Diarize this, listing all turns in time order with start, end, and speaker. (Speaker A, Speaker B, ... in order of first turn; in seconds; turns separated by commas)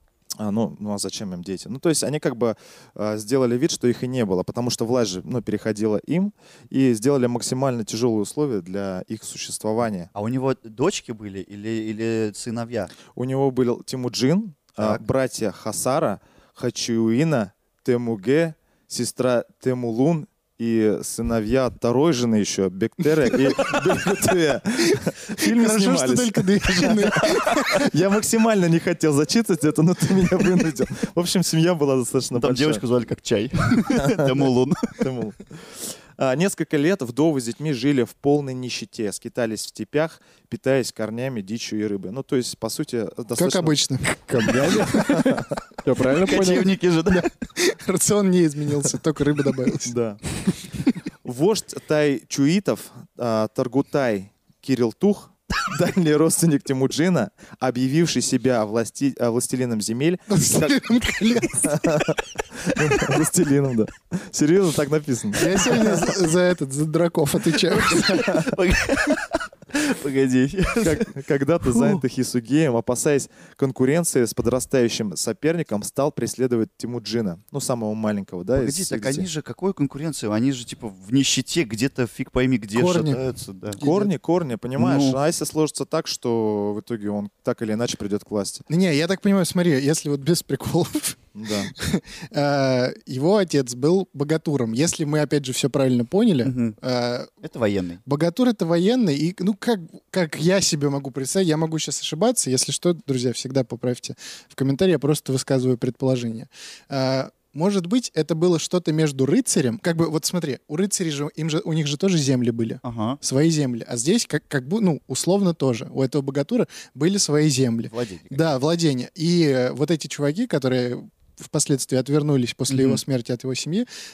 Speaker A: 0.4-10.1, Speaker B: 10.2-12.9, Speaker A: 13.1-32.8, Speaker C: 24.9-27.9, Speaker B: 32.4-35.1, Speaker A: 34.0-43.8, Speaker C: 43.4-45.3, Speaker D: 44.3-46.7, Speaker A: 44.9-45.5, Speaker B: 46.2-47.3, Speaker C: 47.1-50.0, Speaker A: 49.8-50.2, Speaker A: 51.2-66.1, Speaker C: 60.3-61.8, Speaker C: 65.3-68.4, Speaker B: 67.7-71.1, Speaker A: 70.8-79.3, Speaker B: 78.6-83.8, Speaker C: 82.8-83.2, Speaker C: 83.8-84.1, Speaker A: 83.8-88.7, Speaker B: 84.8-85.2, Speaker C: 88.7-97.3, Speaker A: 91.3-91.7, Speaker B: 96.4-96.8, Speaker B: 97.4-98.0, Speaker C: 98.1-123.9, Speaker B: 112.8-113.2, Speaker B: 117.9-118.4, Speaker B: 122.7-123.0